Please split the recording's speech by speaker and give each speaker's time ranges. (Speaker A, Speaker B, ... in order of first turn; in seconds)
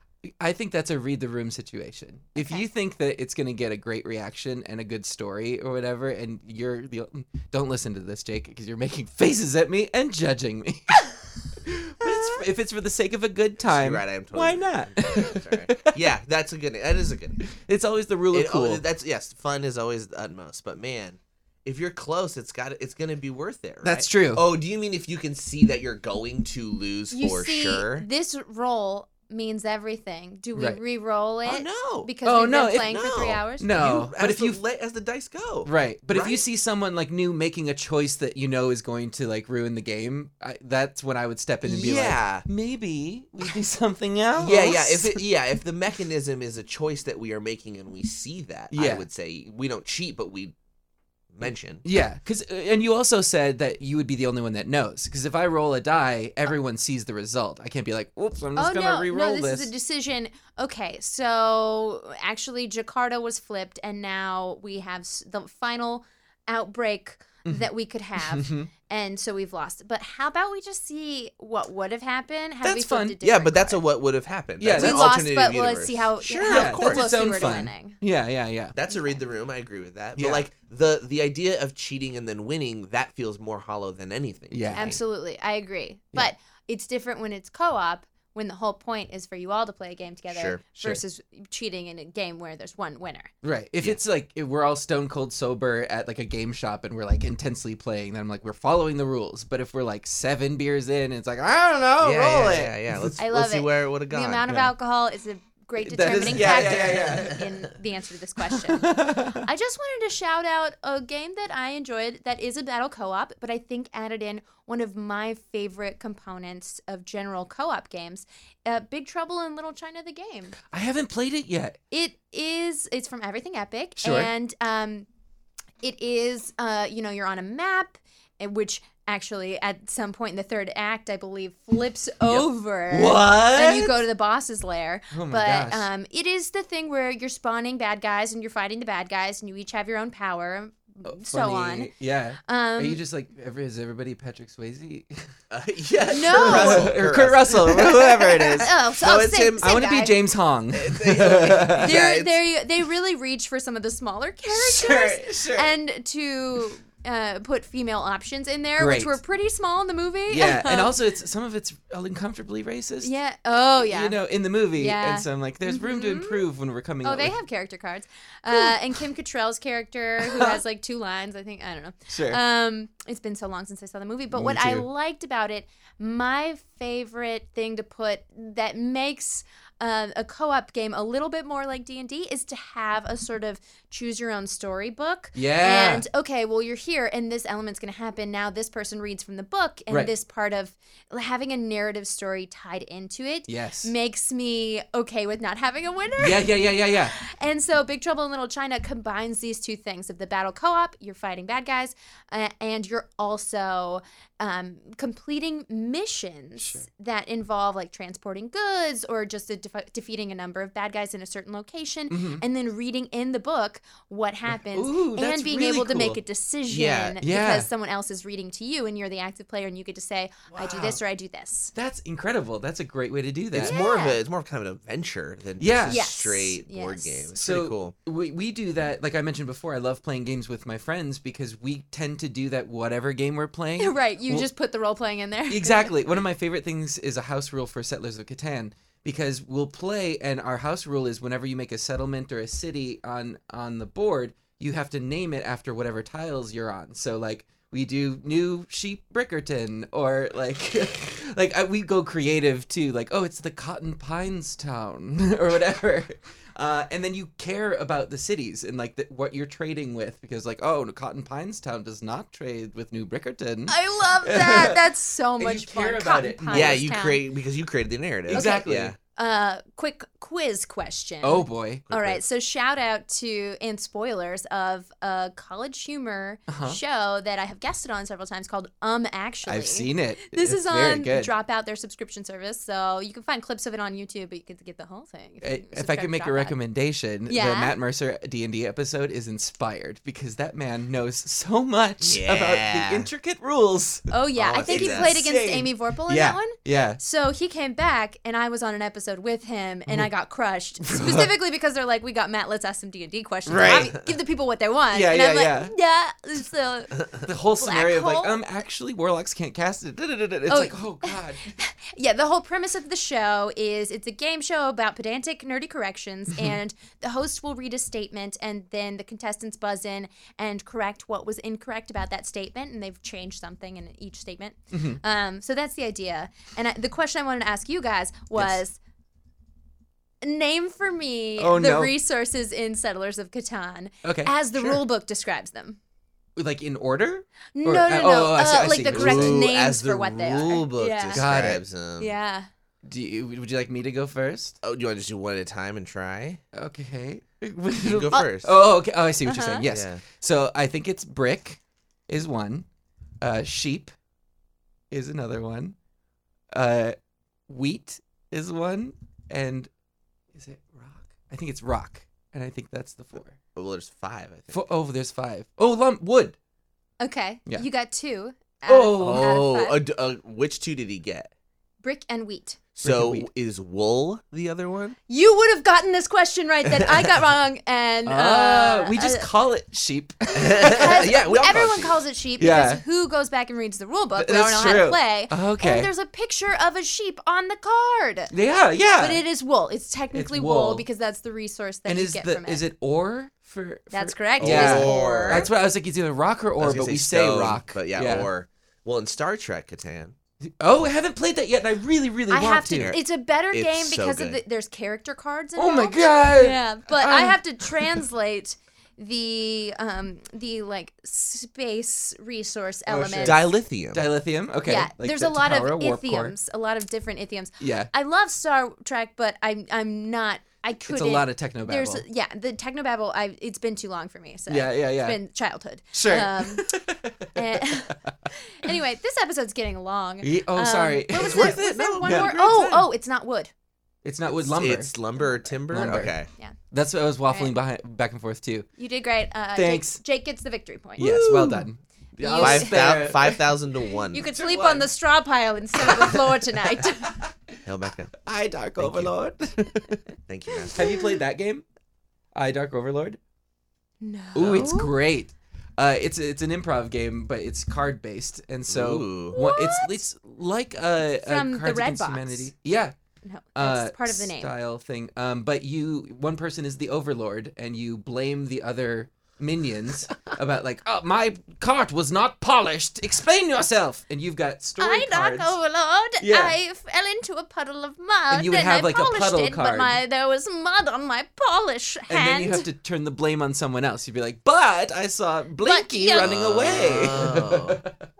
Speaker A: 0.2-16.0, 17.4-18.8, 23.8-24.4, 32.2-33.0, 33.6-34.6, 35.6-45.2, 48.7-49.0, 51.4-59.7, 67.4-68.7, 72.6-73.2, 74.6-75.2, 76.4-78.8, 80.2-80.5, 84.5-85.0, 93.4-103.2, 105.8-107.5, 108.5-109.5, 120.7-121.8, 124.0-124.3, 132.3-134.0, 135.1-135.9, 141.0-145.2, 146.3-148.7, 149.6-152.0, 154.5-155.7, 158.8-159.2, 160.3-163.1, 163.8-167.3, 168.5-169.0, 170.2-170.6, 172.1-172.4, 174.3-174.9, 185.3-186.0, 193.5-193.9, 196.2-197.1, 206.6-206.8, 212.1-212.4, 214.5-216.2, 217.2-217.7, 220.5-221.0, 221.7-223.8, 225.6-226.1, 227.3-234.5, 235.5-264.8, 265.4-266.8, 268.3-268.9, 271.2-271.9, 276.5-276.8, 279.4-281.3, 285.4-297.0, 300.8-301.3, 303.4-303.9, 304.9-305.7, 307.2-311.5, 316.3-316.6, 324.7-325.0, 328.3-328.6, 331.4-331.9, 334.0-334.8, 336.4-339.5, 341.1-341.6, 342.8-344.6, 346.5-352.6, 353.2-353.9, 354.9-355.8, 356.5-356.9, 357.5-359.7, 360.3-363.4, 364.5-366.4, 368.6-369.4, 372.8-373.3, 378.1-381.1, 382.4-382.8, 384.2-385.9, 388.3-389.2, 390.1-390.8, 391.9-398.3, 400.5-402.9, 405.6-408.0, 412.9-416.3, 417.6-417.9, 420.9-422.0, 424.5-425.2, 425.9-428.1, 430.2-432.3, 434.0-436.1, 436.7-438.7, 439.5-440.0, 441.0-443.5, 444.2-444.9, 445.8-447.5, 448.2-450.1, 450.7-451.6, 452.3-453.2, 454.3-462.9, 463.6-475.6, 476.2-476.6, 478.3-480.0, 482.1-488.0
Speaker B: 2.4-2.6, 27.1-33.7, 58.5-73.8, 74.7-78.0, 78.9-79.2, 84.7-93.3, 103.2-120.6, 121.9-125.1, 125.8-141.9, 142.4-143.0, 146.1-146.9, 148.6-150.2, 151.8-160.9, 163.0-164.2, 164.8-166.4, 167.0-221.7, 223.6-224.2, 225.9-227.3, 233.8-235.9, 263.7-267.2, 268.3-286.6, 287.3-287.7, 294.1-308.4, 310.5-328.8, 330.2-335.8, 337.5-341.2, 342.0-342.5, 349.2-349.6, 367.0-369.8, 371.8-372.6, 375.1-379.3, 380.6-388.3, 389.0-392.6, 393.9-395.5, 402.3-413.4, 414.6-426.7, 427.3-433.5, 437.3-437.5, 438.8-441.1, 442.2-442.8, 444.1-447.2, 450.5-451.1, 454.0-454.9, 459.3-460.0, 461.2-462.5, 463.2-464.5, 474.8-482.6, 485.6-486.9
Speaker C: 13.6-17.5, 18.3-28.1, 31.4-32.1, 32.8-36.4, 41.6-42.5, 44.4-50.5, 51.3-51.8, 73.2-77.2, 78.7-85.0, 90.3-90.7, 102.0-104.5, 106.1-107.5, 145.5-149.9, 150.7-152.4, 216.7-217.2, 223.5-227.9, 266.5-268.9, 271.9-272.2, 292.0-293.1, 294.4-295.2, 303.5-304.0, 338.9-342.1, 344.6-346.4, 347.8-348.6, 349.7-350.0, 363.5-364.7, 368.9-371.3, 372.8-375.0, 380.3-382.0, 394.4-395.5, 396.6-400.1, 402.7-404.4, 413.2-414.1, 431.2-432.9, 434.5-436.3, 441.0-441.7, 442.4-444.2, 447.6-448.2, 448.8-449.1, 450.3-450.9, 458.7-459.4, 486.1-487.8